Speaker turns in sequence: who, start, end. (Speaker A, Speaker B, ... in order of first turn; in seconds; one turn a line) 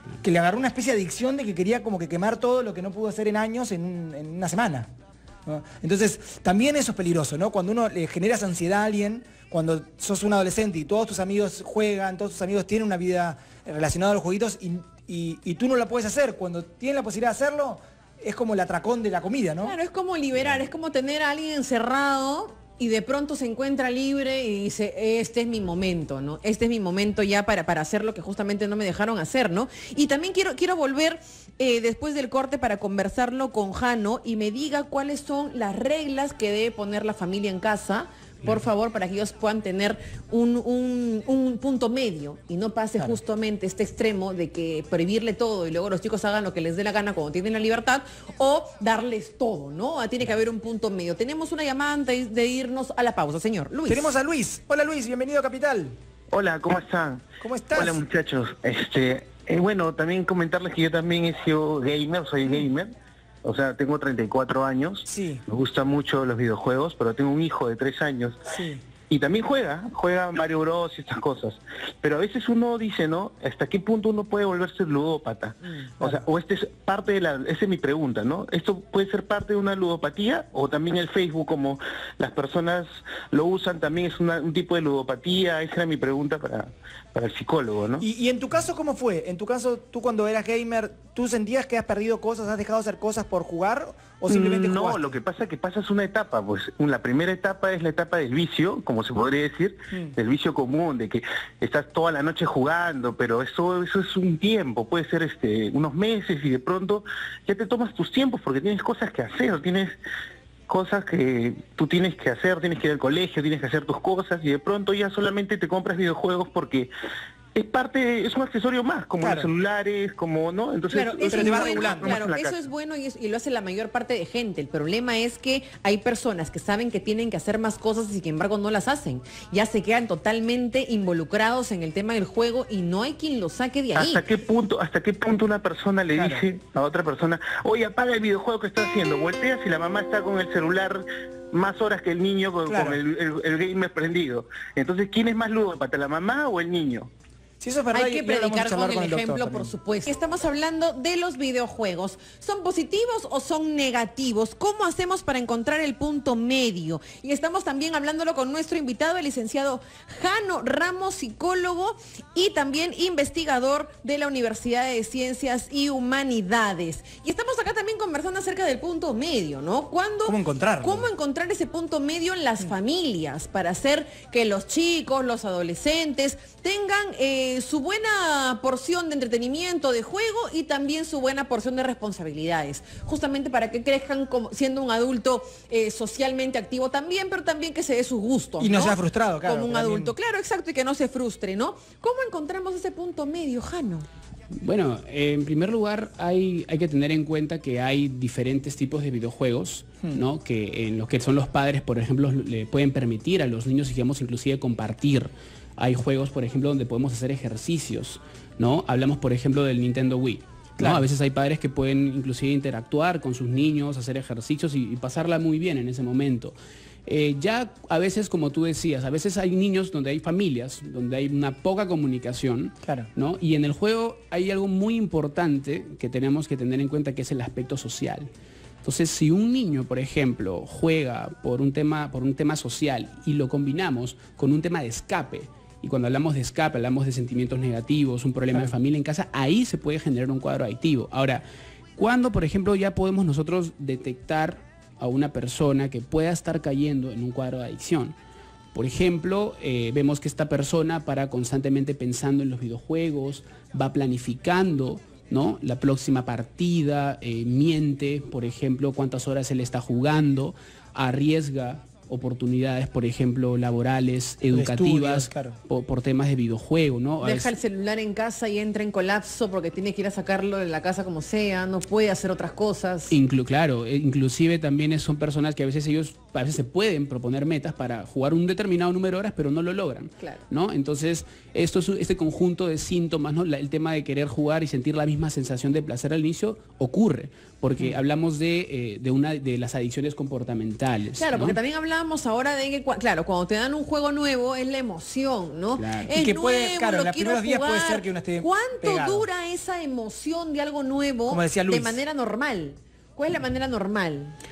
Speaker A: 0.2-4.9
Speaker A: 5.5-19.8
Speaker B: 19.6-54.1
Speaker A: 53.9-56.0
Speaker C: 56.3-62.9
Speaker A: 57.4-58.0
Speaker C: 63.4-68.4
Speaker A: 65.1-65.4
Speaker A: 68.5-68.8
Speaker C: 69.1-88.0
Speaker B: 75.6-75.9
Speaker A: 88.0-95.1
Speaker C: 94.3-110.0
Speaker C: 110.7-116.9
Speaker C: 117.5-122.6
Speaker A: 119.2-119.5
Speaker B: 120.9-134.2
Speaker A: 121.3-122.2
Speaker C: 133.9-147.1
Speaker A: 136.1-136.4
Speaker A: 142.7-143.0
Speaker A: 147.6-149.7
Speaker B: 147.9-194.1
Speaker A: 170.2-171.1
Speaker A: 188.6-190.1
Speaker D: 194.5-216.6
Speaker A: 210.8-211.1
Speaker D: 217.1-228.3
Speaker D: 228.8-241.4
Speaker D: 242.0-248.2
Speaker D: 248.7-267.5
Speaker A: 264.5-265.6
Speaker B: 267.2-273.2
Speaker D: 273.1-291.6
Speaker B: 291.2-304.4
Speaker D: 295.8-296.1
Speaker A: 296.1-299.3
Speaker A: 301.3-302.0